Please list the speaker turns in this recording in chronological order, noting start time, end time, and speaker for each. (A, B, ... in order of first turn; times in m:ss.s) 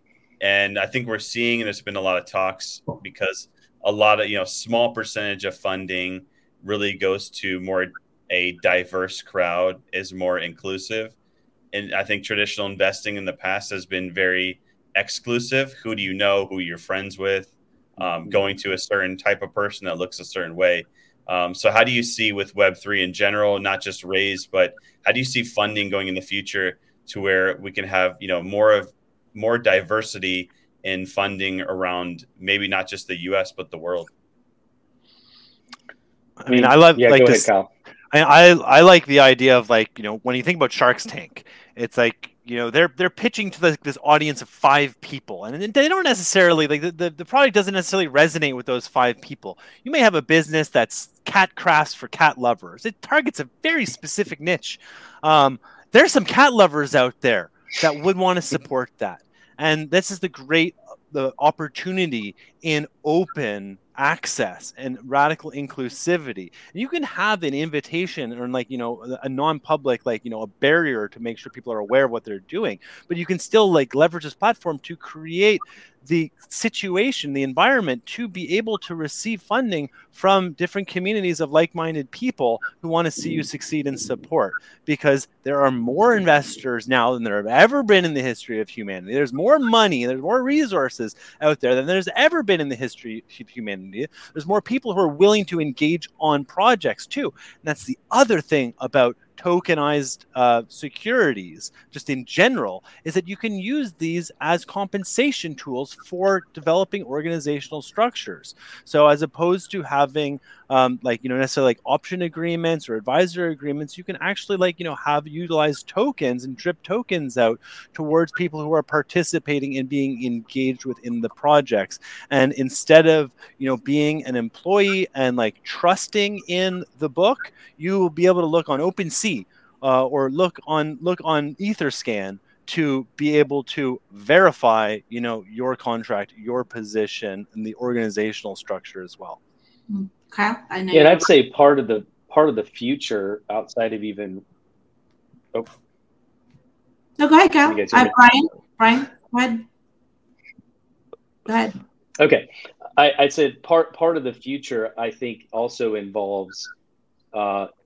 0:00.4-0:11.1 A
0:11.7-0:34.1 A
0:36.4-0:37.5 B
0:36.5-0:37.7 C
0:38.1-2:19.4 B
2:19.9-2:21.3 D
2:20.9-2:24.4 C
2:27.2-2:29.6 D
2:27.6-2:28.1 C
2:31.5-2:31.8 D
2:32.2-2:36.7 C
2:37.3-2:37.7 C